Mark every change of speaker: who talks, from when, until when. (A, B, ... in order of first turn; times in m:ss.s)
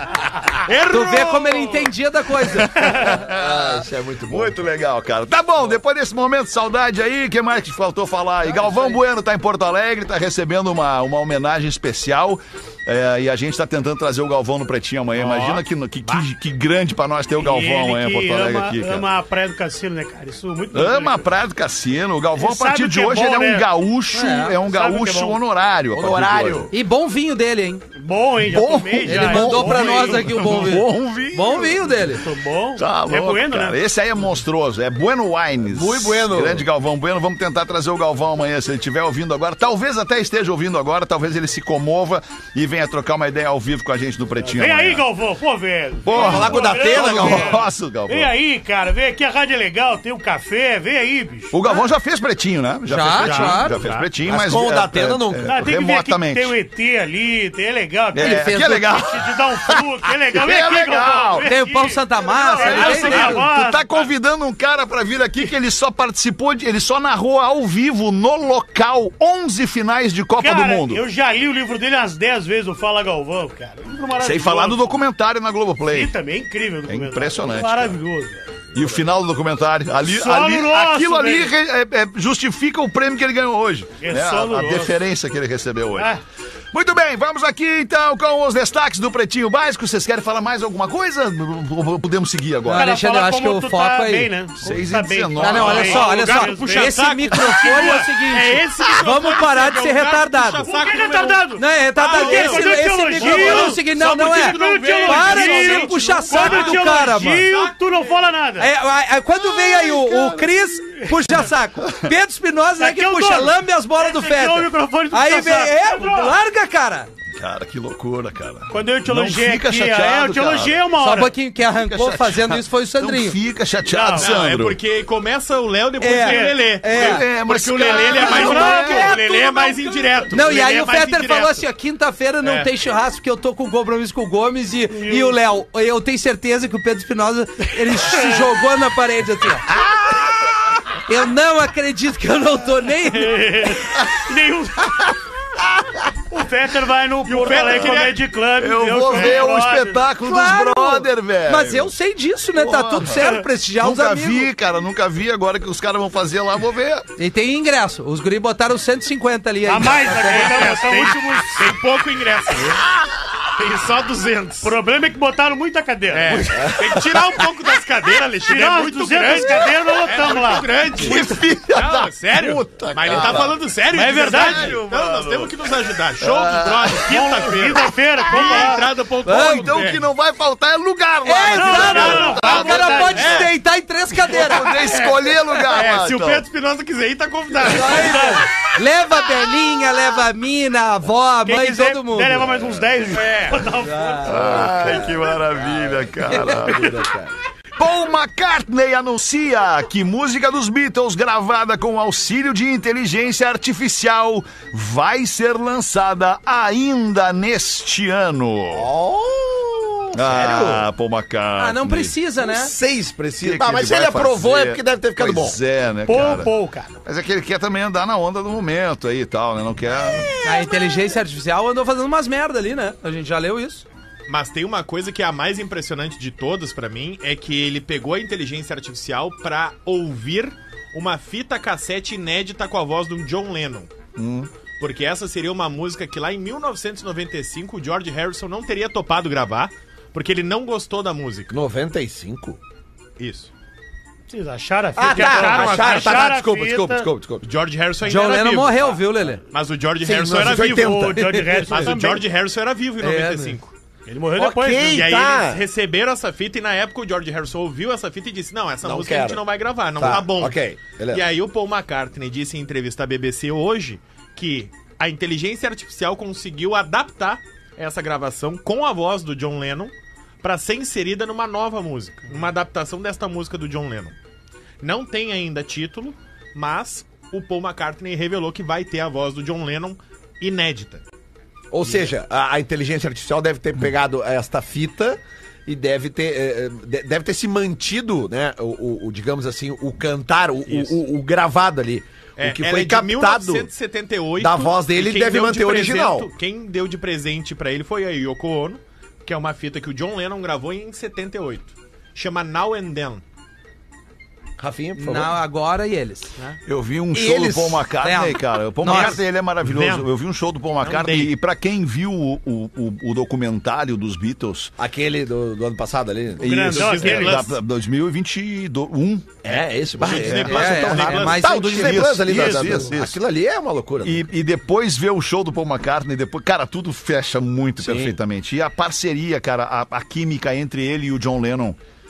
0:00.7-0:01.9 A
0:00.9-0:02.9 B
0:02.5-0:19.0 C
0:03.1-0:04.6 D
0:15.2-0:16.2 A
0:17.4-0:21.2 E
0:20.7-0:26.7 C
0:22.4-0:23.7 E
0:24.1-0:24.6 B
0:24.5-0:25.4 E
0:25.9-0:26.7 D
0:26.7-0:27.8 B
0:28.0-0:30.4 E
0:28.4-0:32.0 C
0:29.0-0:32.2 B
0:32.1-0:33.8 E
0:32.8-0:45.0 C
0:35.7-0:36.7 D
0:44.5-0:51.6 E
0:46.0-0:48.3 C
0:46.1-0:47.6 D
0:51.5-0:56.5 C
0:52.9-0:53.8 B
0:53.2-0:54.1 A
0:54.2-0:55.6 D
0:55.4-1:04.0 E
0:58.1-1:01.5 C
0:58.2-0:58.9 B
1:01.5-1:03.5 B
1:02.3-1:11.0 C
1:10.4-1:14.9 E
1:14.2-1:16.1 C
1:15.9-1:18.6 E
1:16.9-1:18.0 C
1:18.7-1:26.2 C
1:20.0-1:21.5 E
1:24.0-1:25.0 E
1:26.0-1:26.2 E
1:26.7-1:32.9 C
1:32.6-1:34.3 B
1:32.7-1:38.6 E
1:34.6-1:36.0 C
1:35.4-1:40.7 B
1:35.5-1:48.1 A
1:40.6-1:48.7 E
1:41.6-1:47.6 B
1:48.6-1:57.1 B
1:49.7-1:51.3 E
1:51.8-1:52.1 C
1:52.8-1:56.4 E
1:57.3-2:00.8 C
1:58.7-2:01.3 E
2:01.0-2:03.4 B
2:01.7-2:04.8 C
2:03.9-2:04.4 E
2:04.2-2:11.6 A
2:06.0-2:07.2 B
2:06.1-2:06.6 E
2:06.9-2:09.1 C
2:07.9-2:09.9 E
2:08.2-2:09.7 B
2:10.3-2:19.7 B
2:12.4-2:12.7 A
2:14.9-2:15.4 E
2:18.0-2:18.5 E
2:19.9-2:20.2 C
2:21.1-2:23.5 B
2:23.1-2:25.1 E
2:26.3-2:30.0 E
2:27.2-2:28.2 A
2:27.6-2:31.9 C
2:30.2-2:34.5 B
2:32.5-2:37.1 C
2:37.2-2:41.1 B
2:39.6-2:41.6 E
2:40.2-2:42.8 A
2:43.5-2:44.8 A
2:44.6-2:46.6 E
2:46.1-3:00.0 A
2:46.6-2:47.1 D
2:48.4-2:50.8 E
2:51.0-2:53.6 C
2:53.1-2:53.5 D
2:53.9-2:54.8 E
2:54.2-2:55.7 C
2:56.2-2:57.1 C
2:57.0-2:58.9 E
2:58.2-2:58.7 C
2:59.2-3:03.2 C
2:59.3-2:59.6 B
3:01.2-3:04.7 B
3:01.4-3:03.5 E
3:02.0-3:03.5 A
3:04.3-3:06.4 C
3:04.6-3:05.1 A
3:05.7-3:08.4 A
3:07.7-3:12.5 B
3:07.7-3:08.4 E
3:11.4-3:14.8 E
3:13.1-3:13.7 A
3:13.9-3:14.2 B
3:14.2-3:17.3 D
3:14.2-3:17.0 C
3:17.8-3:28.9 C
3:28.7-3:30.8 D
3:30.1-3:32.1 C
3:31.6-3:32.7 B
3:32.4-3:35.6 D
3:33.4-3:36.5 C
3:36.1-3:37.0 E
3:37.0-3:40.3 C
3:40.4-3:43.8 B
3:44.3-3:53.9 A
3:54.2-3:54.5 C
3:54.2-3:54.4 D
3:54.8-4:01.5 A
4:01.5-4:02.6 D
4:03.2-4:03.5 A
4:04.3-4:07.1 E
4:05.0-4:07.4 D
4:05.0-4:06.2 A
4:07.4-4:09.0 A
4:08.0-4:09.4 B
4:09.5-4:11.0 A
4:10.0-4:11.9 D
4:10.3-4:12.2 E
4:11.7-4:13.7 A
4:13.0-4:13.6 B
4:14.0-4:15.0 E
4:14.4-4:15.6 D
4:14.8-4:34.1 A
4:18.8-4:19.4 D
4:20.0-4:21.2 D
4:34.8-4:41.0 A
4:41.7-4:53.7 D
4:50.6-4:51.0 A
4:52.4-5:03.2 A
4:54.4-4:56.3 D
5:04.6-5:05.4 D
5:05.0-5:06.3 B
5:06.6-5:14.7 C
5:07.1-5:07.9 D
5:08.0-5:09.2 B
5:08.8-5:10.1 A
5:10.8-5:11.3 A
5:14.8-5:16.7 D
5:16.4-5:17.4 E
5:16.4-5:19.4 C
5:16.5-5:17.6 A
5:19.4-5:24.2 D
5:20.0-5:21.6 A
5:20.0-5:20.6 C
5:20.4-5:22.2 B
5:21.6-5:23.2 C
5:24.0-5:31.8 C
5:27.8-5:28.2 D